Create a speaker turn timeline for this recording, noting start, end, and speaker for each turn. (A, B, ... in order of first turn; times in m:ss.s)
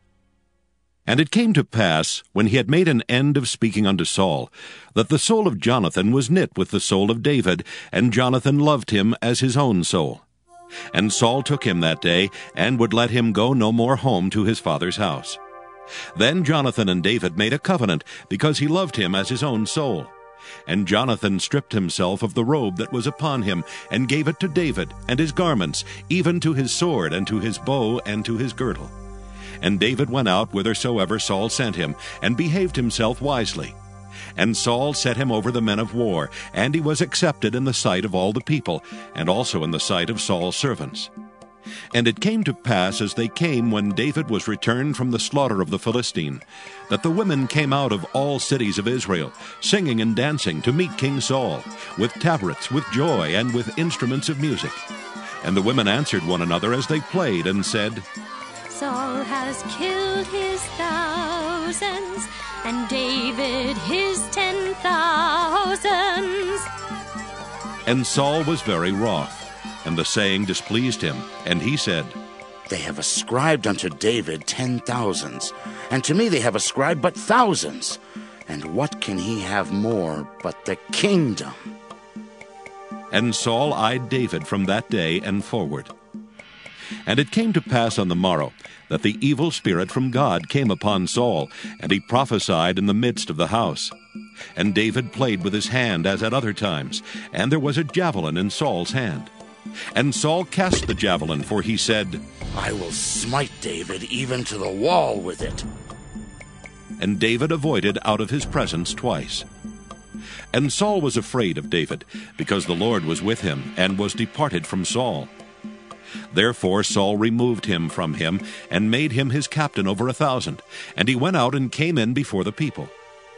0:01.1-0:10.2 A
0:10.9-0:15.4 A
0:16.2-0:20.1 A
0:20.7-0:28.9 A
0:29.6-0:33.8 A
0:34.4-0:41.1 A
0:41.9-0:54.8 A
0:55.4-0:58.0 A
0:58.7-1:06.7 B
1:07.8-1:12.2 A
1:12.7-1:21.6 C
1:23.1-1:25.9 A
1:27.0-1:33.9 A
1:34.6-1:39.3 A
1:39.9-1:42.2 A
1:42.6-1:45.7 C
1:47.0-1:49.4 A
1:50.5-1:55.3 A
1:56.3-2:02.9 A